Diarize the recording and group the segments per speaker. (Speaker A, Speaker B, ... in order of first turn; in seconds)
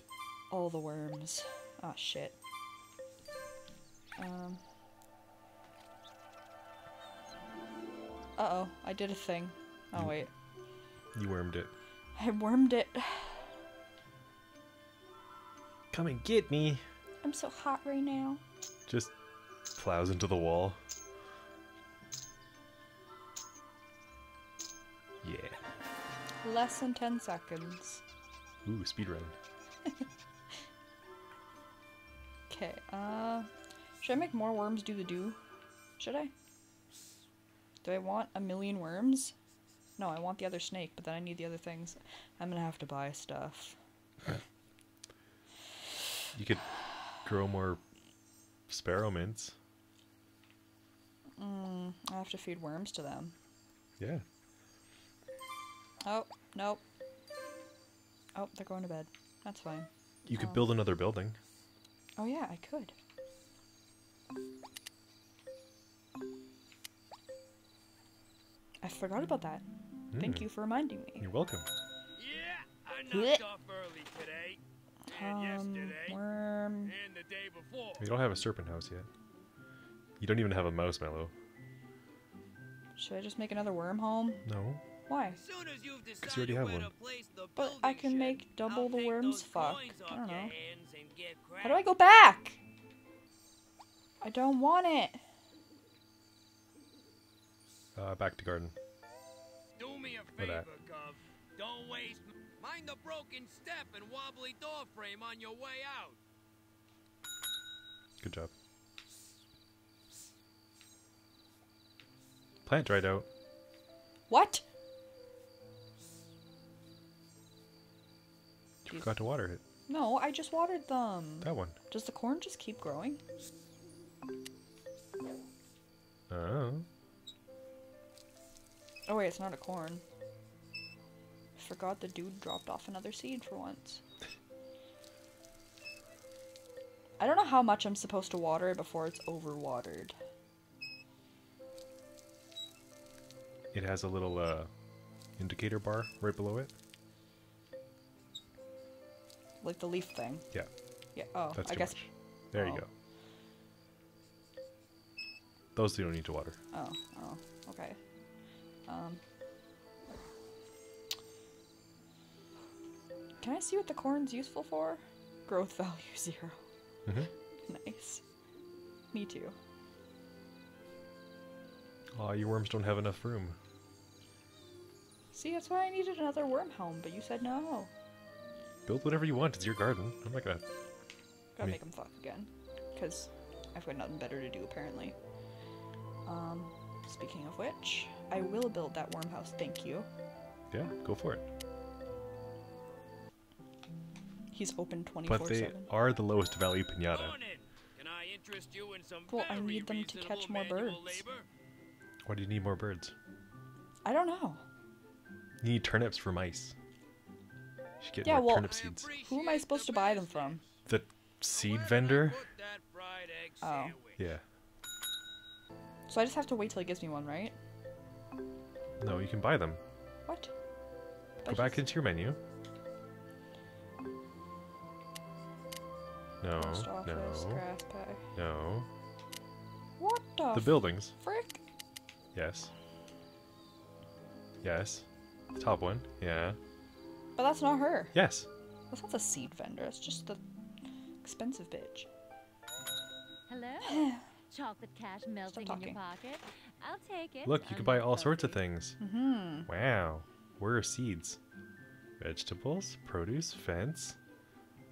Speaker A: 0.5-2.3, 4.2-4.6, 8.4-10.3, 12.2-13.5, 17.2-18.4, 26.4-28.0, 32.5-33.5, 34.0-35.4, 36.0-36.3, 37.8-39.3, 40.0-43.8, 51.4-53.3, 56.0-56.8, 58.3-60.6, 62.2-62.9, 68.8-69.6, 70.1-71.3, 73.1-73.4, 75.1-76.9, 83.0-84.4, 85.1-85.4, 87.5-90.5, 91.6-92.6, 94.2-95.2, 114.3-114.6, 119.9-123.2, 129.1-130.0, 131.6-134.0, 137.2-140.1, 149.6-150.4, 151.1-152.0, 152.5-152.8, 156.7-158.0, 158.9-159.2, 163.4-166.6, 167.7-168.2, 169.1-169.5, 175.3-177.9, 181.6-185.2, 186.2-190.1, 194.5-195.9, 199.3-201.2, 204.0-204.6, 208.2-210.6, 213.6-214.0, 216.1-217.6, 220.2-220.5, 221.4-221.9, 226.6-228.2, 230.0-231.6, 237.3-238.1, 238.9-240.4, 241.2-242.1, 243.9-244.1, 245.5-246.0, 249.0-249.7
Speaker B: 11.1-11.7, 15.9-16.8, 18.9-19.1, 19.8-20.8, 25.2-25.6, 28.6-29.4, 46.3-46.6, 47.2-47.8, 48.7-49.5, 54.0-54.2, 60.2-61.4, 70.1-70.5, 71.2-71.7, 78.0-79.1, 80.2-81.3, 84.4-84.8, 86.2-86.9, 98.0-98.7, 100.4-100.7, 108.2-108.5, 112.6-113.3, 118.9-119.6, 121.4-121.8, 126.3-126.8, 143.7-144.7, 145.4-146.7, 151.5-152.9, 155.7-156.6, 172.1-173.6, 178.8-180.6, 190.7-191.4, 195.2-197.4, 202.2-203.1, 205.6-206.7, 208.0-209.1, 210.9-212.4, 219.0-219.8, 221.4-222.4, 226.4-227.6, 228.3-228.9, 230.5-231.1, 232.3-232.7, 234.6-236.6, 238.1-238.5, 247.4-249.0, 249.7-251.4, 252.2-254.2
Speaker C: 72.2-76.2, 76.8-78.0, 85.3-91.9, 99.8-106.2, 197.1-201.4, 208.6-210.7, 211.5-214.2
Speaker D: 243.5-248.6